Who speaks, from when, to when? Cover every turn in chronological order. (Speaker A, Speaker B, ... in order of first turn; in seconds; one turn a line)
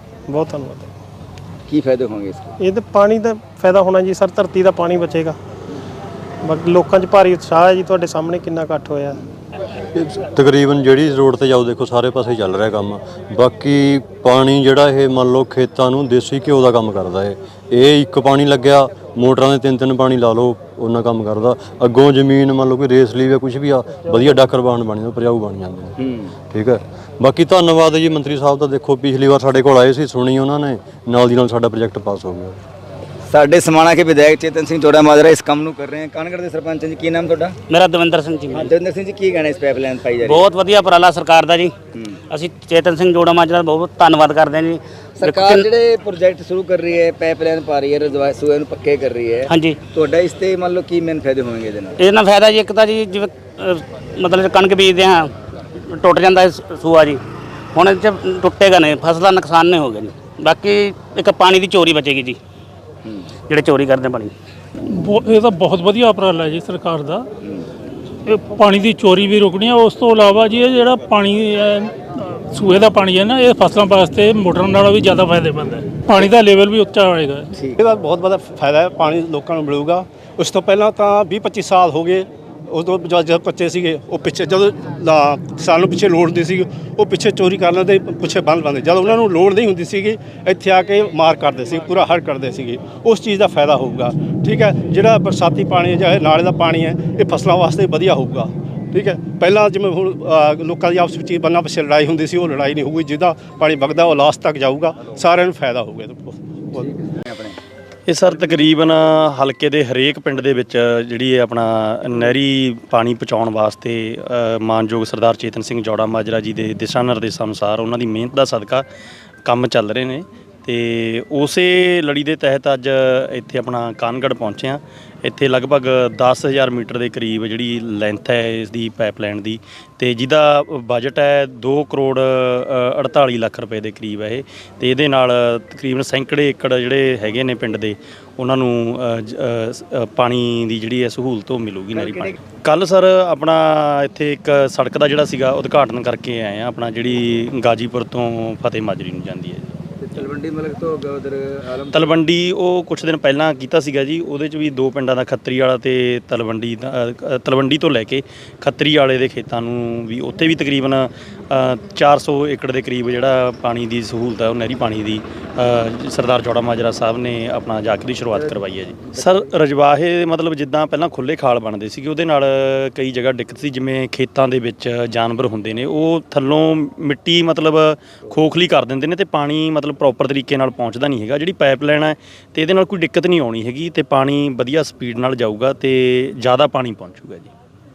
Speaker A: 0.3-0.9
Speaker B: 1.7-2.5
Speaker A: 2.6-5.4
Speaker A: 6.4-9.2
Speaker C: 9.9-26.0
Speaker C: 26.5-32.6
Speaker B: 33.3-37.5
Speaker D: 37.7-38.7
Speaker B: 38.5-40.5
Speaker D: 40.2-41.7
Speaker D: 42.3-45.7
Speaker B: 45.2-52.0
Speaker D: 49.5-49.8
Speaker D: 52.0-55.3
Speaker D: 55.9-57.2
Speaker D: 57.8-62.4
Speaker D: 63.5-64.3
Speaker E: 64.9-67.3
Speaker E: 68.3-77.5
Speaker F: 77.8-106.9
Speaker B: 106.8-107.6
Speaker G: 108.1-118.8
Speaker G: 119.5-149.7
Speaker B: 141.9-142.4
Speaker B: 150.0-152.2
Speaker G: 151.9-187.5
Speaker B: 168.3-169.3